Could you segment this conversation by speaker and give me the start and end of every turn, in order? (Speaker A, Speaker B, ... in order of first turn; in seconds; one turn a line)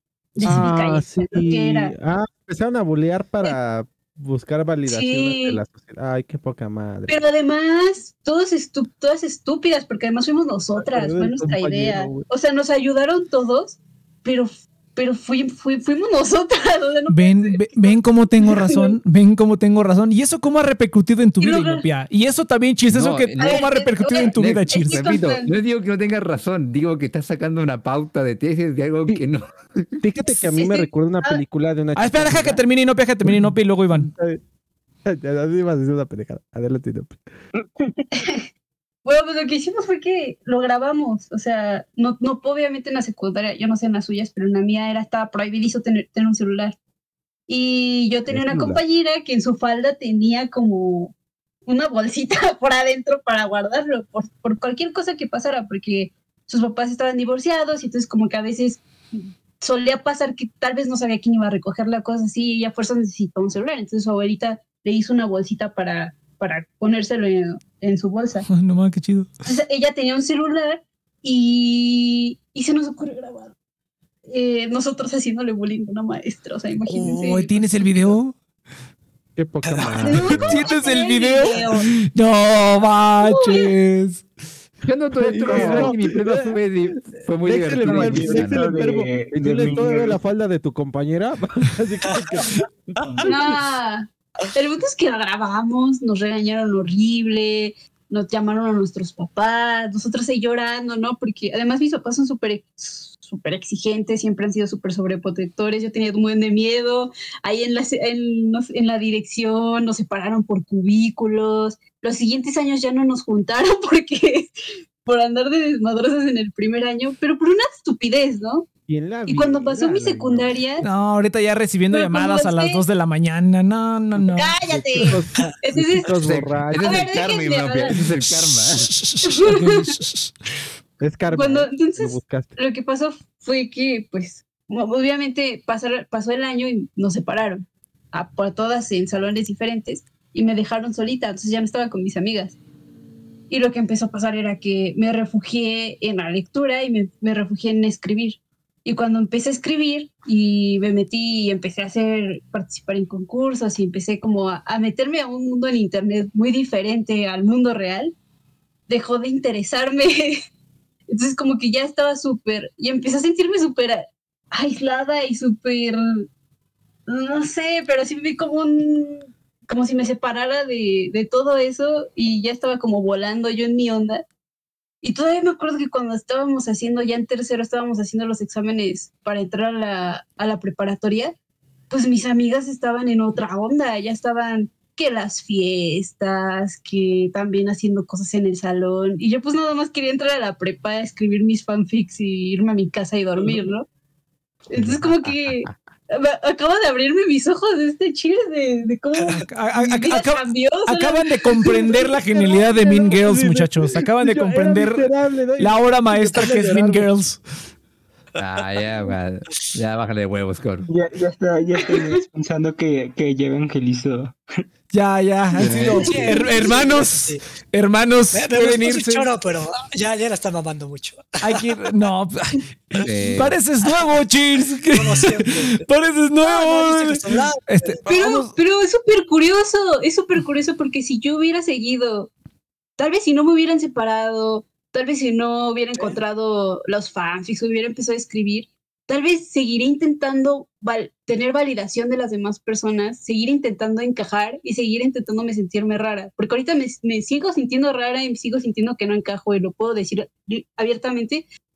Speaker A: 0.3-1.9
Speaker B: 0.4-7.2
Speaker A: 4.9-5.6
Speaker A: 7.1-18.9
Speaker B: 10.8-12.3
Speaker C: 17.1-25.0
Speaker A: 21.4-21.8
Speaker D: 22.9-29.9
Speaker A: 23.4-25.5
Speaker B: 30.0-32.6
Speaker A: 30.3-31.4
Speaker C: 31.9-34.1
Speaker B: 33.3-34.4
Speaker B: 35.0-37.2
Speaker E: 37.6-38.0
Speaker A: 38.1-38.5
Speaker A: 39.0-46.8
Speaker A: 47.5-51.1
Speaker D: 48.3-48.8
Speaker A: 51.6-68.5
Speaker C: 68.5-69.3
Speaker A: 69.4-73.5
Speaker A: 74.3-78.1
Speaker C: 76.8-78.3
Speaker B: 79.3-80.6
Speaker F: 79.6-80.2
Speaker A: 80.0-81.8
Speaker C: 80.2-84.2
Speaker A: 83.2-83.7
Speaker D: 84.8-88.6
Speaker B: 85.2-93.5
Speaker E: 85.4-85.9
Speaker E: 87.7-90.2
Speaker F: 92.0-92.5
Speaker E: 93.0-93.3
Speaker A: 93.2-114.5
Speaker A: 115.0-118.7
Speaker B: 118.9-120.5
Speaker A: 119.3-120.8
Speaker C: 120.8-124.5
Speaker A: 121.9-122.8
Speaker A: 124.3-126.1
Speaker B: 124.6-127.0
Speaker D: 126.1-128.9
Speaker A: 126.8-128.0
Speaker C: 128.8-130.3
Speaker A: 129.2-129.9
Speaker B: 131.0-132.5
Speaker A: 131.3-142.6
Speaker A: 143.5-158.1
Speaker A: 158.9-160.4
Speaker A: 161.1-166.2
Speaker A: 167.1-174.2
Speaker A: 175.0-181.3
Speaker A: 181.9-193.9
Speaker A: 194.7-203.2
Speaker D: 194.7-195.7
Speaker C: 199.3-205.1
Speaker B: 203.1-207.1
Speaker C: 205.6-207.4
Speaker D: 208.3-210.9
Speaker E: 210.9-214.4
Speaker C: 214.9-219.3
Speaker D: 215.6-216.1
Speaker F: 215.8-217.4
Speaker E: 216.1-216.5
Speaker F: 218.3-221.7
Speaker C: 221.4-228.6
Speaker D: 223.0-223.6
Speaker F: 223.0-223.4
Speaker F: 224.9-225.8
Speaker F: 226.4-228.0
Speaker A: 228.1-232.3
Speaker A: 233.0-251.4